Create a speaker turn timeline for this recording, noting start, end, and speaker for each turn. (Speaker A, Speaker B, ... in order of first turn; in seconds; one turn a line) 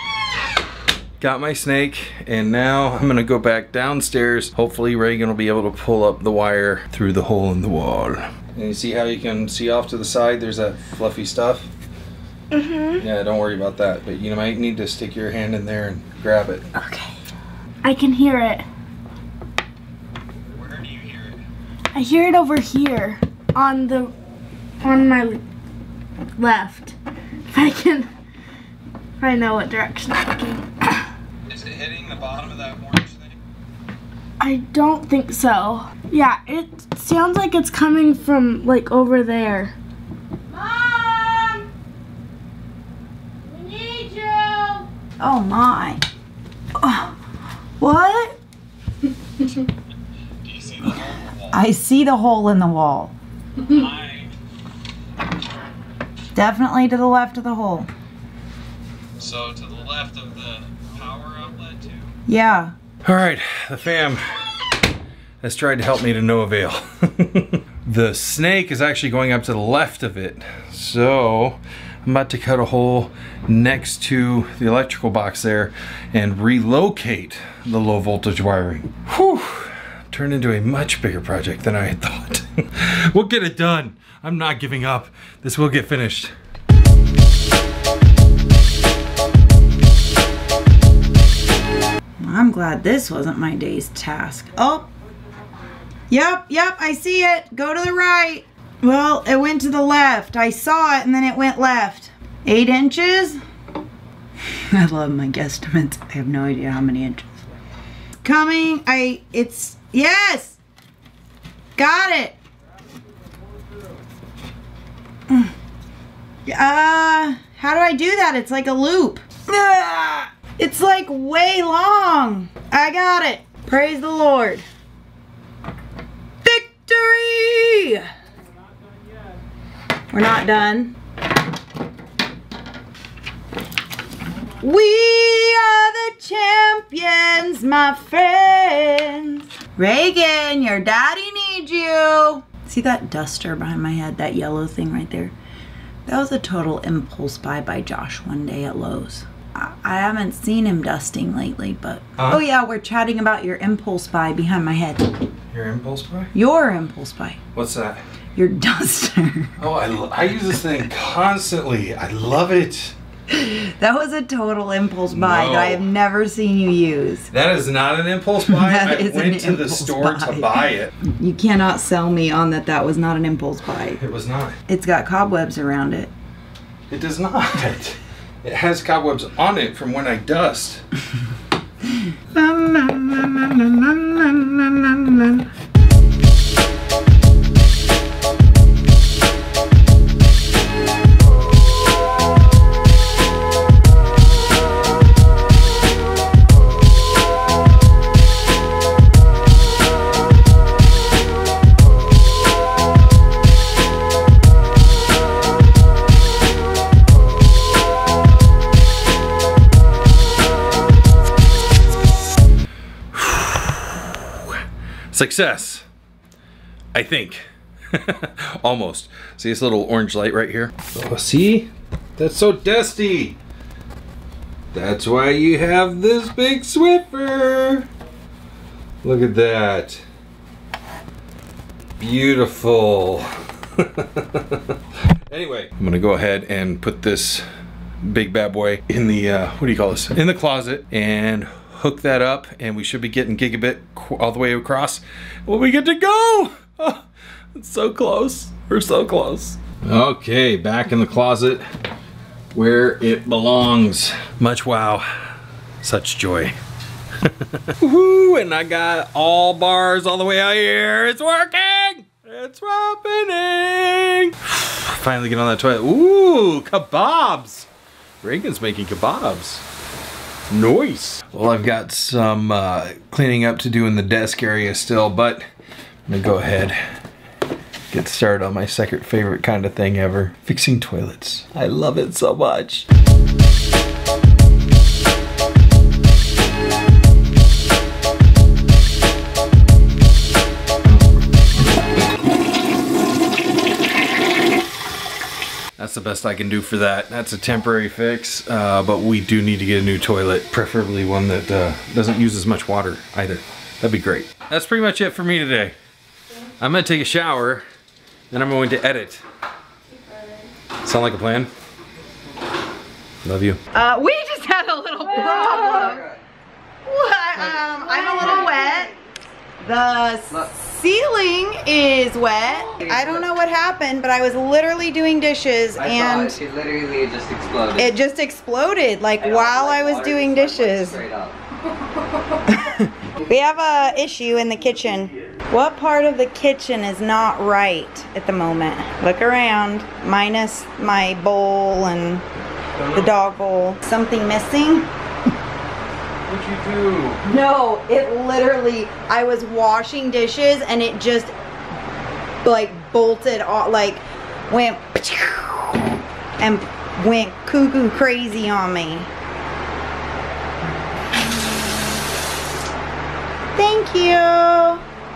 Speaker A: 1.2-11.7
Speaker B: 12.5-13.0
Speaker A: 13.0-16.7
Speaker B: 16.8-17.1
Speaker B: 17.8-18.6
Speaker A: 20.6-21.4
Speaker B: 21.9-24.1
Speaker B: 24.8-25.4
Speaker B: 26.4-26.9
Speaker B: 27.5-28.1
Speaker B: 29.2-31.1
Speaker A: 31.5-33.3
Speaker B: 34.4-39.7
Speaker C: 40.6-41.6
Speaker B: 43.6-44.8
Speaker C: 45.2-46.0
Speaker C: 46.8-47.1
Speaker C: 47.8-48.4
Speaker A: 50.4-51.5
Speaker C: 51.5-53.1
Speaker A: 53.6-54.3
Speaker C: 56.3-57.9
Speaker A: 59.2-62.1
Speaker C: 62.3-62.7
Speaker A: 63.0-64.7
Speaker A: 65.4-86.3
Speaker C: 92.2-94.9
Speaker C: 96.1-103.4
Speaker C: 104.7-107.4
Speaker C: 108.2-110.6
Speaker C: 111.8-112.4
Speaker C: 116.5-124.6
Speaker C: 126.4-128.1
Speaker C: 130.1-130.9
Speaker C: 134.5-145.3
Speaker C: 146.1-155.2
Speaker A: 152.2-152.4
Speaker A: 155.5-156.3
Speaker C: 156.3-157.4
Speaker A: 157.5-158.0
Speaker C: 158.3-159.6
Speaker A: 159.6-162.9
Speaker C: 163.3-167.3
Speaker A: 165.1-165.8
Speaker A: 167.3-170.9
Speaker C: 168.4-174.0
Speaker A: 174.0-174.6
Speaker C: 174.7-176.1
Speaker A: 176.9-180.8
Speaker C: 182.3-185.4
Speaker A: 213.1-214.6
Speaker A: 215.1-215.8
Speaker A: 216.9-223.4
Speaker A: 224.7-227.9
Speaker A: 229.0-230.0
Speaker A: 232.0-237.4
Speaker A: 238.0-247.0
Speaker A: 247.5-251.6
Speaker A: 252.5-255.1
Speaker A: 255.8-256.6
Speaker A: 257.2-267.7
Speaker A: 268.2-269.6
Speaker A: 270.5-275.4
Speaker A: 276.1-276.8
Speaker A: 277.9-282.9
Speaker A: 295.8-305.7
Speaker A: 306.6-307.6
Speaker A: 308.3-309.2
Speaker A: 310.8-311.5
Speaker A: 313.2-313.6
Speaker C: 313.7-316.1
Speaker D: 315.4-316.2
Speaker C: 316.8-318.9
Speaker C: 319.6-326.4
Speaker D: 322.9-323.1
Speaker D: 325.8-327.9
Speaker C: 327.7-331.0
Speaker D: 329.2-331.3
Speaker C: 332.5-342.2
Speaker C: 342.9-344.9
Speaker A: 346.3-347.2
Speaker C: 347.2-351.3
Speaker C: 352.4-359.1
Speaker C: 363.5-364.8